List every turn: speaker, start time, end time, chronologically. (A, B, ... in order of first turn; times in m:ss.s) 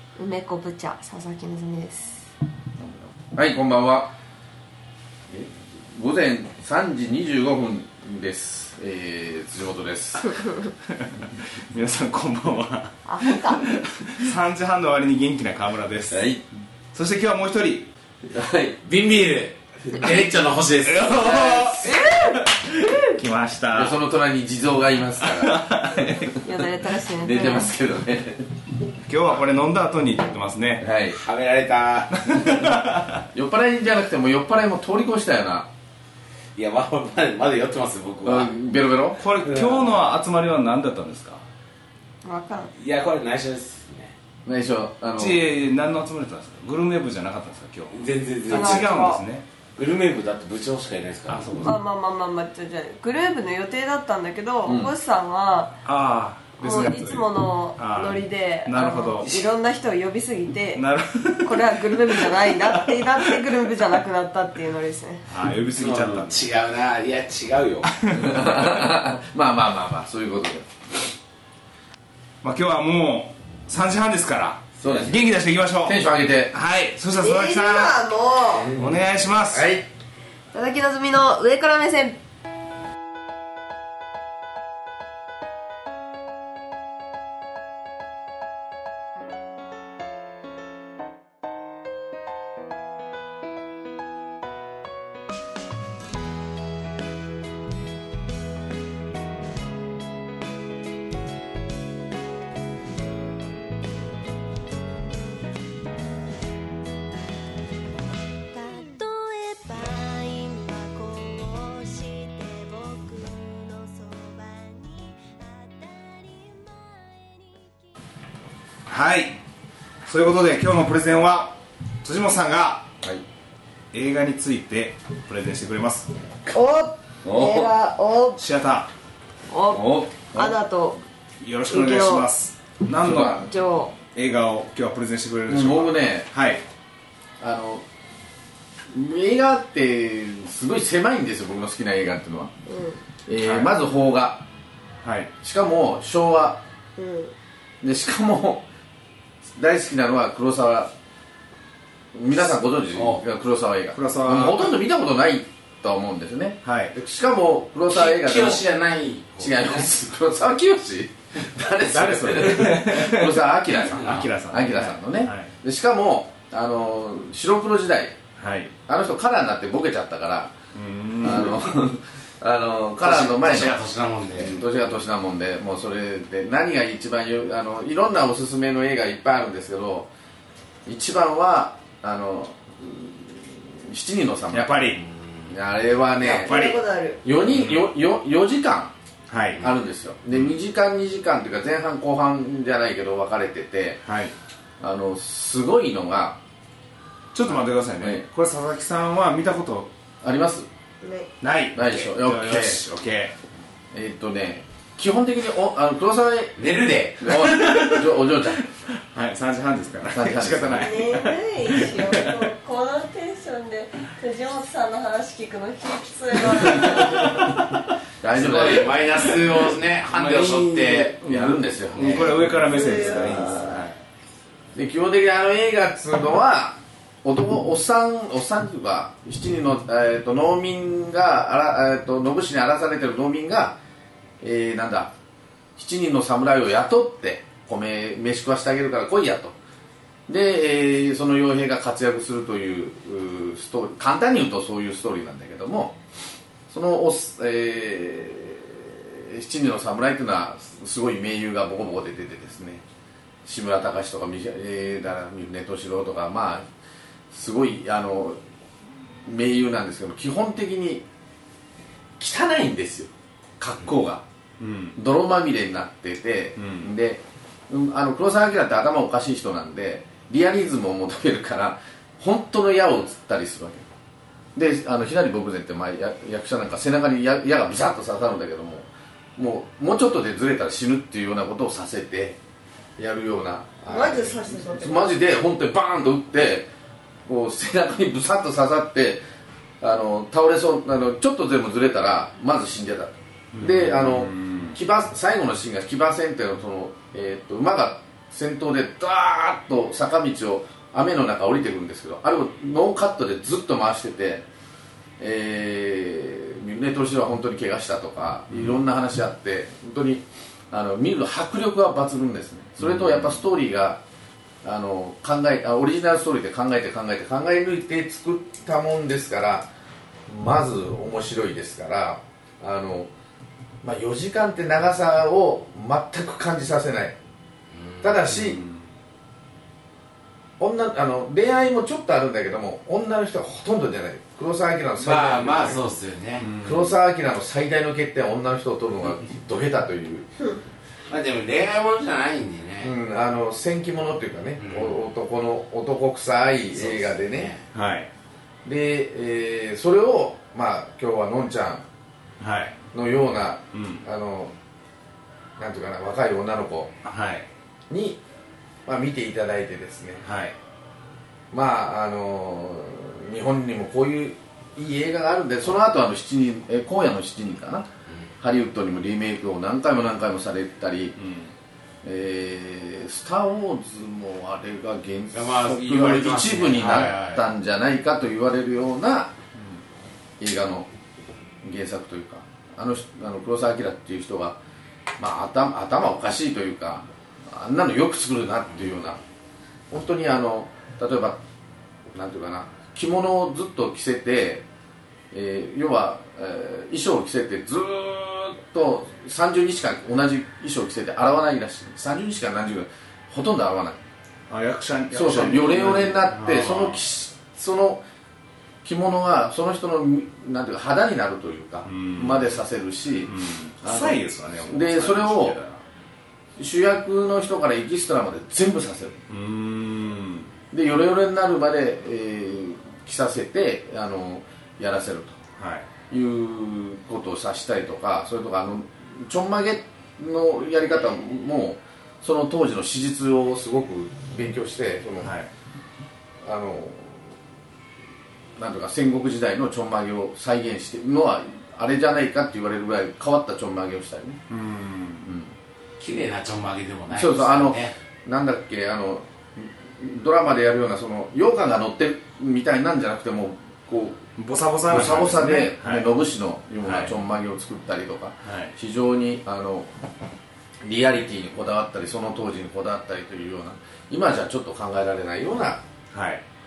0:00.2-0:02.3 A
0:02.8-0:04.1 B
0:05.3-0:10.4 B
0:10.9-0:16.4 C
0:13.0-0:13.6 A
0:16.1-0:16.4 B
0:16.9-0:17.9 C
0:18.3-0:18.8 B
0:18.8-0:22.1 D
0:20.8-0:24.0 C
0:22.0-0:22.4 A
0:23.7-0:26.4 B
0:25.2-0:26.2 C
0:26.4-0:27.8 A
0:27.1-0:28.5 B
0:29.0-0:30.9 C
0:30.8-0:31.2 B
0:31.2-0:32.4 D
0:32.1-0:33.2 C
0:33.3-0:35.7 B
0:36.6-0:38.5 D
0:38.2-0:39.2 B
0:39.2-0:41.4 C
0:39.4-0:40.0 D
0:42.2-0:42.7 A
0:42.7-0:44.1 D
0:44.4-0:45.4 B
0:45.2-0:49.4 C
0:47.9-0:49.0 D
0:48.5-0:49.2 A
0:49.8-0:51.7 D
0:51.3-0:51.8 C
0:51.6-0:55.8 A
0:54.6-0:54.9 B
0:55.8-0:59.5 C
0:56.6-1:00.8 A
1:00.7-1:03.6 C
1:01.4-1:05.2 A
1:05.2-1:06.5 C
1:05.7-1:08.0 D
1:07.9-1:08.4 C
1:08.1-1:10.7 B
1:12.4-1:16.0 C
1:14.8-1:15.3 B
1:15.8-1:16.5 B
1:16.5-1:18.0 C
1:17.1-1:18.7 A
1:18.6-1:19.8 B
1:18.7-1:19.7 C
1:20.5-1:22.2 A
1:45.1-1:45.8 E
1:48.5-1:57.9 E
1:58.9-1:59.4 C
2:00.0-2:02.9 C
2:03.9-2:06.1 C
2:06.5-2:08.4 A
2:07.2-2:07.7 B
2:08.4-2:08.9 C
2:09.5-2:11.0 A
2:09.7-2:10.6 B
2:11.4-2:13.5 C
2:11.7-2:12.2 A
2:13.0-2:13.4 B
2:13.4-2:13.9 A
2:14.1-2:16.6 C
2:15.5-2:16.3 B
2:17.4-2:17.8 B
2:18.9-2:22.5 B
2:22.7-2:23.0 A
2:23.2-2:24.4 B
2:23.4-2:23.7 C
2:25.0-2:25.3 C
2:25.4-2:26.6 B
2:27.0-2:27.3 A
2:27.8-2:28.6 B
2:29.5-2:30.9 B
2:32.1-2:38.6 B
2:32.9-2:33.2 D
2:33.9-2:34.8 C
2:36.6-2:36.9 C
2:37.9-2:39.9 D
2:39.4-2:48.2 B
2:41.9-2:45.5 C
2:43.9-2:44.3 D
2:48.4-2:48.7 C
2:48.9-2:50.5 B
2:50.7-2:51.6 C
2:51.2-2:53.8 B
2:53.0-2:54.6 D
2:54.3-3:00.1 B
3:00.8-3:06.7 B
3:04.5-3:05.0 C
3:05.1-3:05.5 D
3:06.2-3:07.2 A
3:06.4-3:06.8 C
3:07.2-3:08.9 B
3:07.5-3:07.9 C
3:09.3-3:09.7 C
3:09.6-3:14.0 B
3:10.3-3:10.6 C
3:14.0-3:14.3 C
3:14.8-3:16.4 B
3:17.3-3:19.9 C
3:17.5-3:18.2 B
3:20.2-3:20.7 B
3:21.0-3:21.3 A
3:21.4-3:23.3 C
3:21.7-3:22.8 B
3:23.9-3:26.6 B
3:26.6-3:27.4 D
3:27.2-3:28.6 B
3:27.3-3:32.5 C
3:30.1-3:31.2 B
3:30.8-3:37.5 A
3:36.7-3:39.4 B
3:38.3-3:41.1 D
3:40.1-3:43.5 B
3:41.2-3:44.0 C
3:42.0-3:42.3 D
3:42.6-3:43.8 A
3:44.7-3:53.8 B
3:54.4-3:55.1 B
3:55.8-3:59.6 B
4:00.3-4:06.0 B
4:06.7-4:12.8 B
4:13.4-4:16.6 B
4:17.3-4:18.4 B
4:19.2-4:21.0 B
4:22.2-4:24.2 B
4:24.6-4:25.0 C
4:25.0-4:33.9 B
4:26.6-4:26.9 C
4:34.5-4:42.4 B
4:43.0-4:46.7 B
4:43.9-4:45.2 A
4:47.2-4:49.2 B
4:49.8-5:04.4 B
4:53.5-4:54.8 C
5:05.2-5:14.0 B
5:08.5-5:08.8 C
5:12.8-5:13.4 C
5:14.6-5:19.7 B
5:20.3-5:23.1 B
5:23.8-5:27.2 B
5:27.7-5:28.4 D
5:28.0-5:28.6 B
5:30.6-5:35.8 B
5:35.0-5:36.5 D
5:36.4-5:36.9 C
5:36.6-5:40.3 B
5:41.1-5:42.9 D
5:42.8-5:47.5 B
5:44.6-5:45.0 D
5:46.7-5:47.6 D
5:47.7-5:48.1 C
5:48.6-5:51.8 B
5:52.4-5:52.8 C
5:52.9-5:54.5 B
5:53.7-5:54.0 C
5:55.6-5:56.9 B
5:57.0-5:57.4 C
5:57.9-5:58.2 B
5:58.8-6:00.2 B
6:00.2-6:00.5 C
6:01.5-6:07.9 B
6:08.4-6:11.2 B
6:11.2-6:11.5 C
6:12.0-6:19.3 B
6:15.3-6:17.2 D
6:16.7-6:17.4 C
6:20.4-6:20.9 B
6:21.6-6:24.6 B
6:25.2-6:29.2 B
6:29.9-6:31.4 B
6:32.1-6:34.6 B
6:35.3-6:44.0 B
6:44.5-6:47.0 C
6:45.1-6:48.0 B
6:48.8-6:55.6 B
6:51.8-6:52.5 C
6:53.3-6:55.8 C
6:56.6-6:59.2 B
6:59.3-7:00.5 C
7:00.7-7:05.4 B
7:05.6-7:05.8 C
7:06.1-7:15.3 B
7:15.2-7:15.5 C
7:16.4-7:17.2 B
7:18.6-7:24.4 B
7:24.5-7:25.3 C
7:25.2-7:25.5 B
7:26.0-7:27.9 D
7:27.1-7:34.2 B
7:34.4-7:36.1 C
7:34.9-7:39.9 B
7:36.8-7:37.1 C
7:38.4-7:38.7 C
7:40.8-7:45.8 B
7:46.1-7:46.4 C